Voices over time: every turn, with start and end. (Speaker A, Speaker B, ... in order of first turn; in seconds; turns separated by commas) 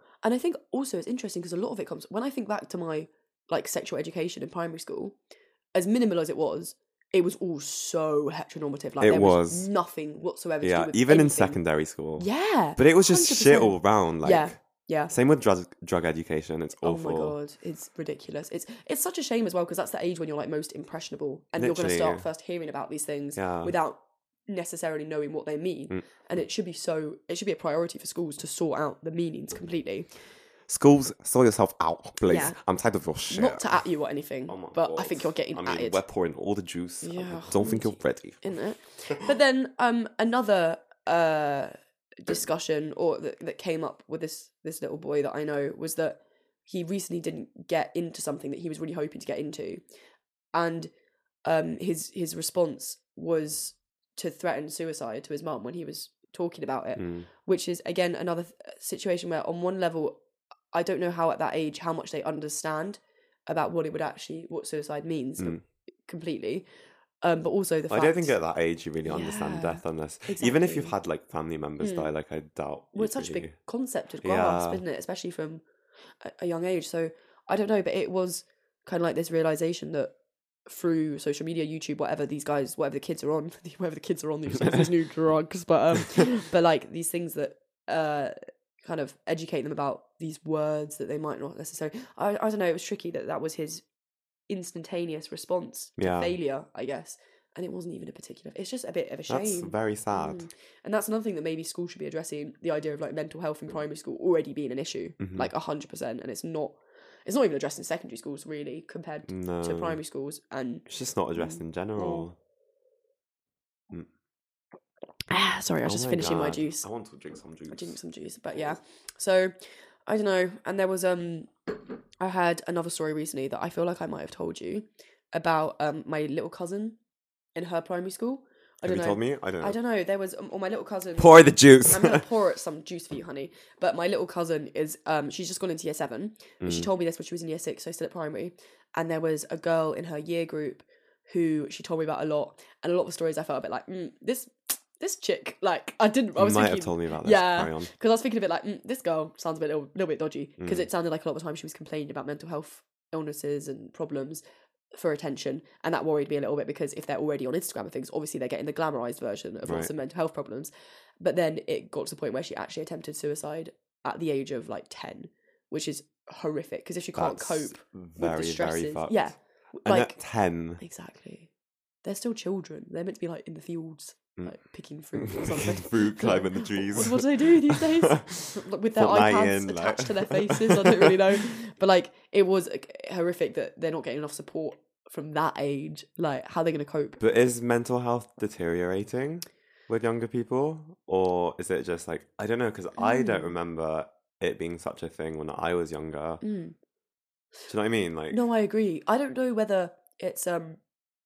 Speaker A: 0.2-5.2, Speaker A: 5.7-11.6, Speaker B: 9.0-9.7, Speaker B: 10.6-14.5, Speaker A: 12.2-15.1, Speaker B: 15.1-17.4, Speaker A: 16.8-30.1, Speaker B: 21.6-22.2, Speaker B: 23.4-23.7, Speaker B: 30.7-33.6, Speaker A: 32.3-32.6, Speaker A: 33.3-36.0, Speaker B: 34.5-38.4, Speaker A: 37.0-49.8, Speaker A: 50.5-50.9, Speaker A: 51.4-60.2, Speaker B: 57.0-57.3, Speaker A: 60.7-66.7, Speaker A: 67.2-68.3, Speaker B: 67.9-73.5, Speaker A: 69.0-70.9, Speaker A: 71.8-72.1, Speaker A: 72.9-75.6, Speaker B: 74.2-74.8, Speaker A: 76.2-80.1, Speaker A: 80.7-93.8, Speaker A: 94.5-112.3, Speaker B: 96.0-96.3, Speaker B: 99.3-100.5, Speaker B: 105.2-105.5, Speaker B: 109.3-110.0, Speaker B: 110.9-112.3, Speaker A: 115.3-116.8, Speaker B: 115.8-117.9, Speaker A: 117.7-119.5, Speaker A: 120.1-121.5, Speaker A: 122.2-127.0, Speaker A: 127.5-154.4, Speaker B: 128.8-129.8, Speaker B: 131.2-132.2, Speaker B: 136.6-136.9, Speaker B: 146.4-147.9, Speaker B: 150.6-150.9, Speaker A: 154.9-170.2, Speaker B: 159.6-159.9, Speaker B: 167.1-169.3, Speaker B: 169.8-170.8, Speaker A: 170.8-171.5, Speaker A: 172.0-187.2, Speaker B: 175.2-181.2, Speaker B: 187.2-196.4, Speaker A: 193.0-193.5, Speaker A: 196.4-196.8, Speaker B: 197.7-198.4, Speaker A: 198.3-200.8